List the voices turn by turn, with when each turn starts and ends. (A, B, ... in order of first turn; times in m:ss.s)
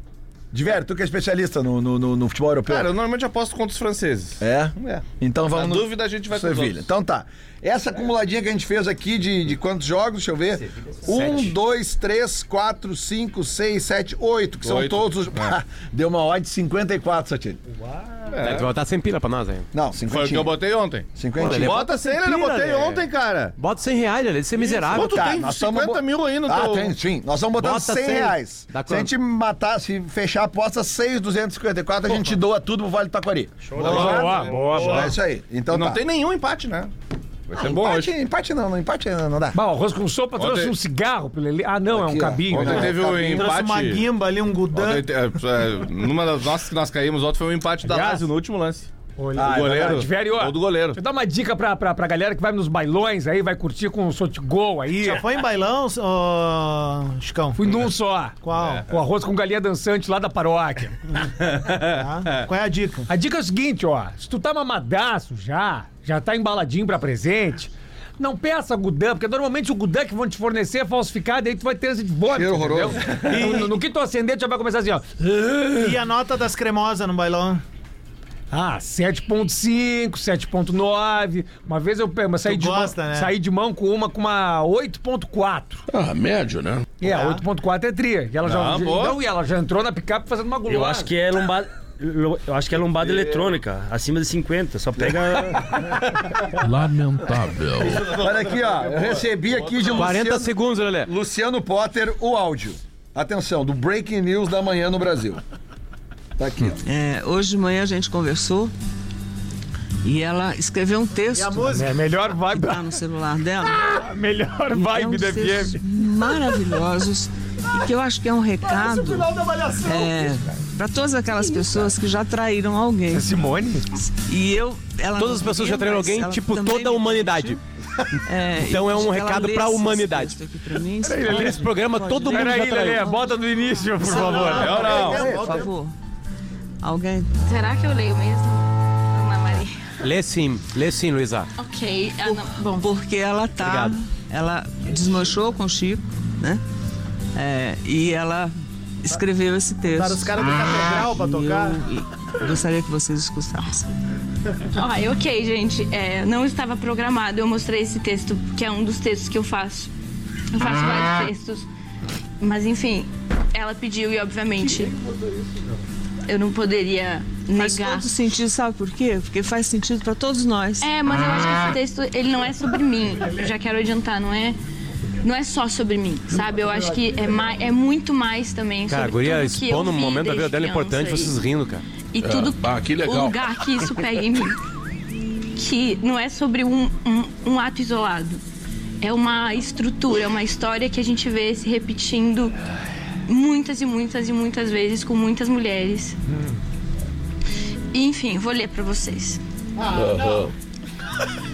0:00.5-0:02.9 A
0:02.7-0:06.8 B
0:04.4-0:17.6 A
0:10.6-0:11.2 C
0:11.1-0:11.5 D
0:14.6-0:15.5 B
0:17.7-0:18.3 C
0:18.3-0:18.7 B
0:18.4-0:19.7 D
0:19.7-0:20.5 A
0:20.0-0:23.5 B
0:21.1-0:21.8 A
0:21.4-0:25.3 D
0:24.6-0:27.0 B
0:24.8-0:36.0 A
0:27.6-0:29.1 D
0:33.6-0:35.1 C
0:33.8-0:34.5 B
0:33.8-0:35.1 E
0:35.7-0:36.9 B
0:37.5-0:38.1 B
0:37.6-0:39.6 A
0:39.5-0:42.9 E
0:40.4-0:40.7 B
0:41.9-0:43.5 A
0:42.5-0:44.0 B
0:43.1-0:45.1 F
0:44.7-0:51.0 B
0:47.8-0:48.2 E
0:49.2-0:55.2 E
0:49.3-0:50.0 A
0:54.9-0:57.6 F
0:57.6-1:01.1 E
0:58.4-0:58.8 F
0:58.5-0:58.8 B
1:01.9-1:03.1 F
1:03.1-1:16.0 E
1:12.3-1:13.6 A
1:15.8-1:17.6 F
1:18.5-1:25.8 E
1:22.4-1:23.3 F
1:25.9-1:26.9 G
1:27.0-1:31.1 E
1:27.0-1:27.4 F
1:28.4-1:29.2 B
1:30.7-1:35.9 C
1:33.0-1:33.4 B
1:36.6-1:38.1 G
1:37.8-1:40.2 B
1:38.0-1:40.5 A
1:39.9-1:41.1 D
1:41.0-1:45.4 A
1:46.4-1:46.8 A
1:46.8-1:48.7 H
1:50.0-1:51.8 H
1:51.3-1:52.0 F
1:51.7-1:53.0 E
1:52.5-1:53.9 H
1:53.6-1:55.8 E
1:54.7-1:59.3 H
1:58.6-2:00.4 F
1:59.8-2:03.3 H
2:03.1-2:03.8 E
2:04.0-2:07.6 H
2:05.2-2:07.6 D
2:08.2-2:15.9 H
2:08.6-2:10.4 D
2:11.0-2:14.8 E
2:11.2-2:13.1 D
2:14.0-2:15.7 F
2:14.5-2:15.2 B
2:14.9-2:15.7 A
2:16.8-2:17.3 H
2:17.4-2:19.8 I
2:20.0-2:21.5 D
2:21.6-2:22.6 I
2:22.2-2:26.6 H
2:23.6-2:23.9 D
2:27.3-2:28.5 H
2:29.0-2:33.9 H
2:29.9-2:31.8 F
2:34.7-2:39.9 I
2:40.5-2:41.6 I
2:42.4-2:44.9 I
2:46.2-2:48.1 I
2:47.5-2:50.9 H
2:50.8-2:54.6 I
2:55.2-3:01.3 I
2:58.9-3:01.8 D
3:02.1-3:04.6 I
3:02.2-3:03.6 G
3:05.5-3:08.4 I
3:09.0-3:12.5 I
3:13.2-3:16.2 I
3:17.9-3:19.4 I
3:19.8-3:20.5 F
3:19.9-3:20.5 G